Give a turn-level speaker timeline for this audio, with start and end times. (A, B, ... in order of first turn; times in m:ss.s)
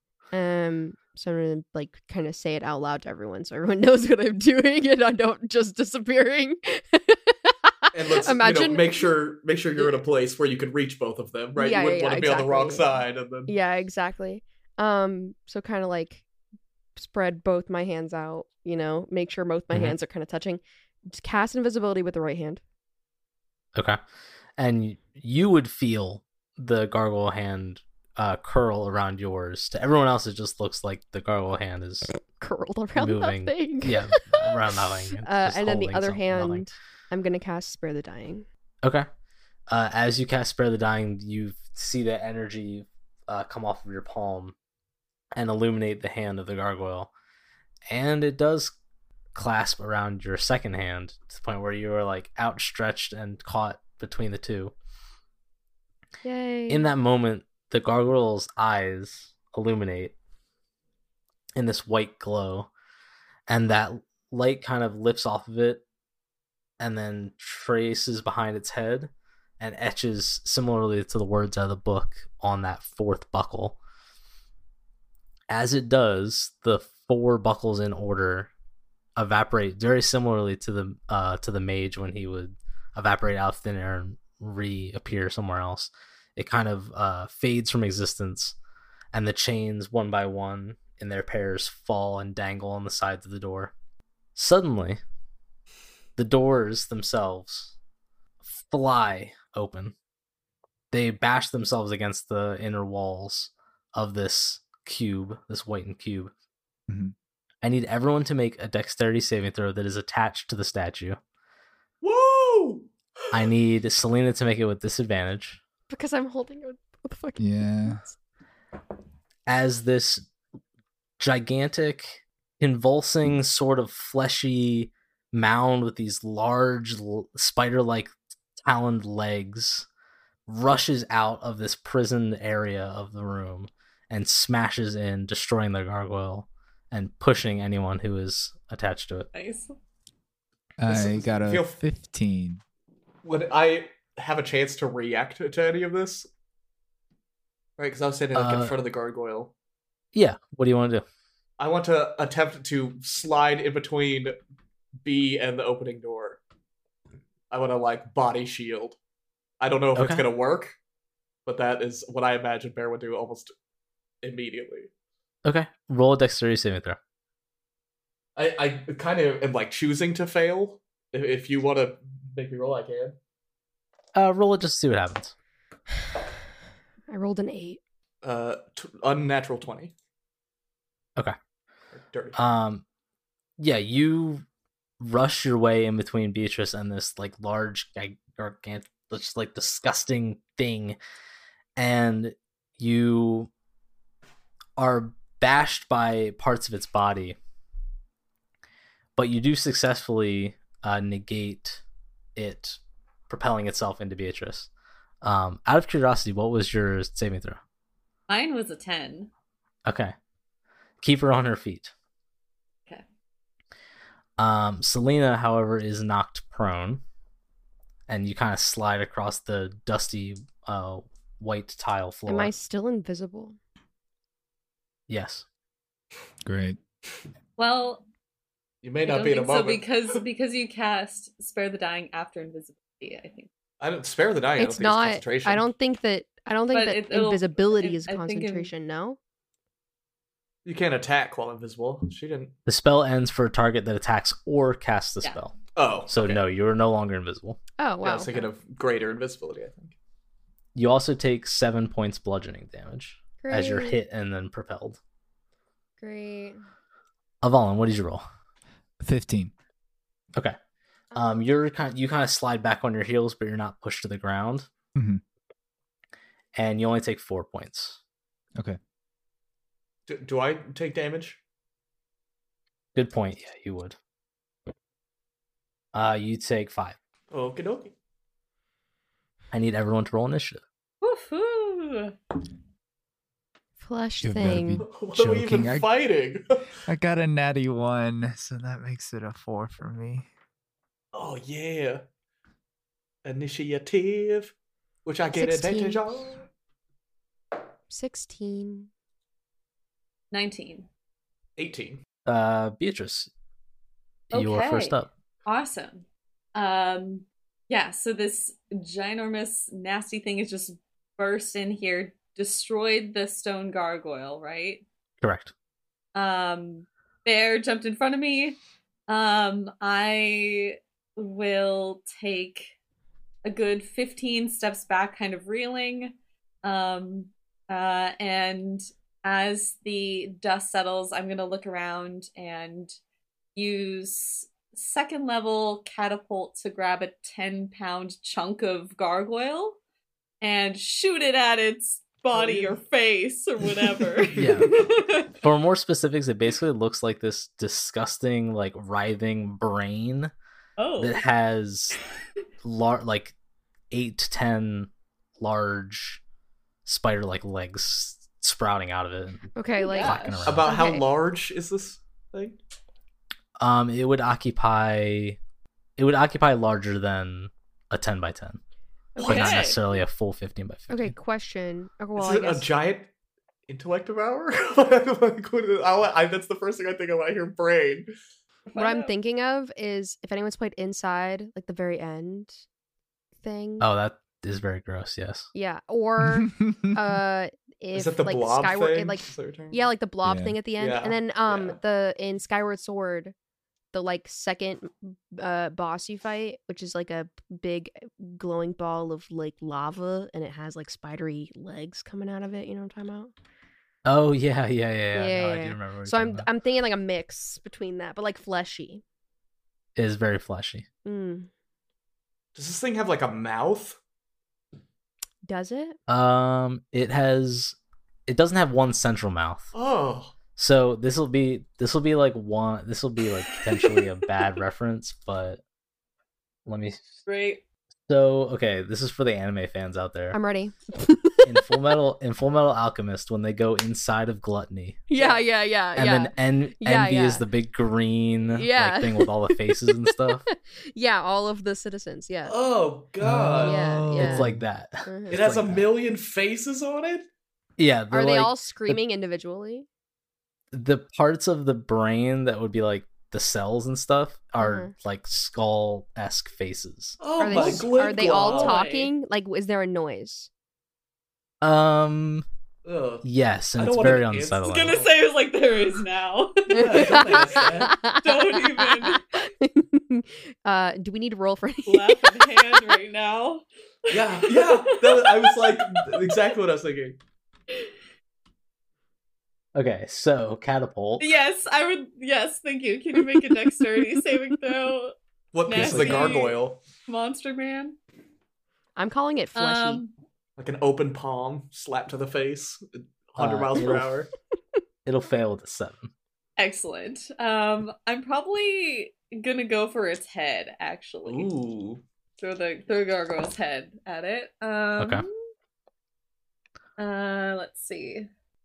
0:00.3-0:09.1 A
0:07.9-0:13.5 B
0:11.6-0:16.2 A
0:17.0-0:22.6 A
0:23.7-0:24.0 C
0:24.6-0:32.1 C
0:32.3-0:34.6 A
0:33.0-0:36.7 C
0:35.2-0:38.4 A
0:38.8-0:39.1 C
0:39.7-0:44.5 C
0:45.3-0:47.1 C
0:47.9-0:48.7 C
0:49.3-0:54.7 C
0:56.2-0:56.8 A
0:56.7-1:00.1 C
1:01.6-1:02.7 C
1:03.5-1:05.8 C
1:06.8-1:13.8 C
1:15.5-1:18.5 C
1:19.2-1:28.6 C
1:29.1-1:33.7 C
1:34.3-1:35.0 C
1:36.2-1:37.7 C
1:38.4-1:39.9 C
1:40.9-1:46.3 C
1:46.9-1:47.1 D
1:47.6-1:51.2 C
1:52.0-1:53.5 B
1:53.3-1:55.6 C
1:55.9-1:58.2 A
1:57.4-1:58.0 D
1:59.5-2:00.3 C
2:01.2-2:09.9 C
2:10.5-2:19.3 C
2:19.3-2:19.8 E
2:20.8-2:22.6 D
2:20.9-2:21.8 B
2:23.2-2:26.3 B
2:27.8-2:29.5 B
2:28.3-2:28.7 C
2:30.1-2:31.0 C
2:31.6-2:34.4 B
2:35.0-2:36.4 B
2:37.5-2:39.0 B
2:39.6-2:40.8 B
2:39.9-2:40.2 C
2:41.4-2:43.5 B
2:44.2-2:44.9 B
2:45.4-2:47.0 C
2:48.4-2:53.2 B
2:54.2-2:55.3 C
2:57.1-2:57.8 A
2:58.2-2:59.9 B
3:02.0-3:02.4 B
3:02.4-3:02.8 C
3:03.6-3:04.4 C
3:05.0-3:11.0 C
3:11.8-3:13.5 C
3:14.8-3:17.4 C
3:19.2-3:21.8 C
3:22.4-3:24.7 C
3:25.2-3:27.6 C
3:28.3-3:29.3 E
3:29.8-3:30.1 C
3:31.0-3:31.9 C
3:34.4-3:37.0 C
3:38.1-3:42.5 C
3:42.3-3:43.6 A
3:45.1-3:45.4 C
3:46.4-3:46.8 D
3:47.6-3:48.0 E
3:48.8-3:49.9 B
3:49.0-3:53.5 E
3:53.8-3:55.7 B
3:54.6-3:59.2 A
3:56.7-3:58.7 E
4:00.6-4:02.5 B
4:02.6-4:05.6 C
4:05.7-4:06.4 B
4:06.1-4:07.6 C
4:07.8-4:08.3 A
4:08.0-4:09.9 B
4:10.7-4:15.0 C
4:13.4-4:14.0 A
4:16.0-4:16.6 A
4:17.4-4:18.2 C
4:19.0-4:19.5 D
4:21.1-4:21.4 A
4:21.1-4:24.7 C
4:24.9-4:25.2 D
4:26.6-4:28.0 C
4:30.1-4:31.4 B
4:32.9-4:34.0 C
4:35.9-4:37.0 C
4:37.3-4:37.9 B
4:39.5-4:40.6 C
4:41.0-4:42.2 E
4:43.8-4:44.8 A
4:44.2-4:45.8 D
4:44.8-4:46.6 B
4:46.8-4:50.3 D
4:51.1-4:52.0 B
4:53.2-4:54.5 B
4:55.0-4:56.4 B
4:55.3-4:56.1 A
4:57.9-4:58.9 A
5:00.3-5:00.9 E
5:01.6-5:02.0 B
5:02.2-5:03.3 C
5:04.3-5:14.8 E
5:04.3-5:05.1 C
5:15.2-5:15.5 C
5:16.1-5:18.6 E
5:19.1-5:22.7 E
5:23.4-5:26.1 E
5:26.6-5:32.9 E
5:33.5-5:39.8 E
5:40.4-5:45.4 E
5:42.3-5:42.8 B
5:43.8-5:44.6 B
5:44.4-5:44.7 C
5:45.4-5:50.3 C
5:50.8-5:51.2 E
5:51.0-5:52.0 C
5:52.6-5:53.3 C
5:53.9-5:56.2 C
5:56.8-6:00.8 C
5:59.6-6:01.0 A
5:59.8-6:00.5 E
6:00.4-6:02.6 B
6:03.6-6:05.4 C
6:06.0-6:08.6 C
6:09.2-6:09.6 A
6:09.2-6:09.8 E
6:09.2-6:11.1 C
6:10.9-6:12.7 A
6:12.2-6:13.1 B
6:13.7-6:18.1 B
6:18.7-6:19.1 E
6:18.7-6:22.6 A
6:23.4-6:23.8 A
6:23.8-6:25.5 C
6:25.5-6:33.3 A
6:26.3-6:27.0 D
6:27.9-6:29.9 B
6:30.2-6:30.6 D
6:30.8-6:31.8 B
6:33.9-6:43.3 A
6:44.0-6:46.5 C
6:45.1-6:49.0 A
6:50.0-6:50.8 C
6:51.0-6:51.5 A
6:52.5-6:54.0 B
6:55.4-6:56.0 A
6:56.1-6:57.8 C
6:58.3-6:59.7 C
6:59.7-7:00.3 B
7:00.6-7:05.6 C
7:06.6-7:07.1 C
7:07.2-7:07.6 E
7:08.1-7:10.4 C
7:10.3-7:11.7 A
7:11.4-7:15.1 C
7:15.1-7:17.4 A
7:15.2-7:15.4 B
7:16.0-7:20.4 C
7:18.5-7:22.5 A
7:22.4-7:24.0 B
7:23.2-7:24.6 D
7:23.6-7:24.5 A
7:24.1-7:25.9 C
7:25.0-7:25.4 A
7:25.3-7:27.2 B
7:27.8-7:29.0 C
7:28.1-7:29.9 A
7:30.7-7:37.8 C
7:34.6-7:34.9 A
7:37.2-7:38.8 B
7:37.4-7:40.5 A
7:38.1-7:39.1 E
7:41.6-7:42.4 C
7:42.8-7:45.1 B
7:43.2-7:45.0 C
7:44.6-7:49.2 E
7:46.7-7:48.0 B
7:46.7-7:52.8 A
7:51.8-7:56.4 E
7:54.1-7:57.2 B
7:59.7-8:01.3 C
8:01.2-8:05.1 E
8:05.5-8:06.8 B
8:05.6-8:08.0 E
8:05.7-8:06.3 C
8:09.0-8:10.0 A
8:09.5-8:10.1 E
8:10.6-8:14.3 B
8:13.4-8:14.2 C
8:15.0-8:16.1 C
8:16.6-8:21.5 E
8:21.2-8:22.0 B
8:22.4-8:25.4 E
8:25.0-8:25.2 C
8:27.0-8:28.3 E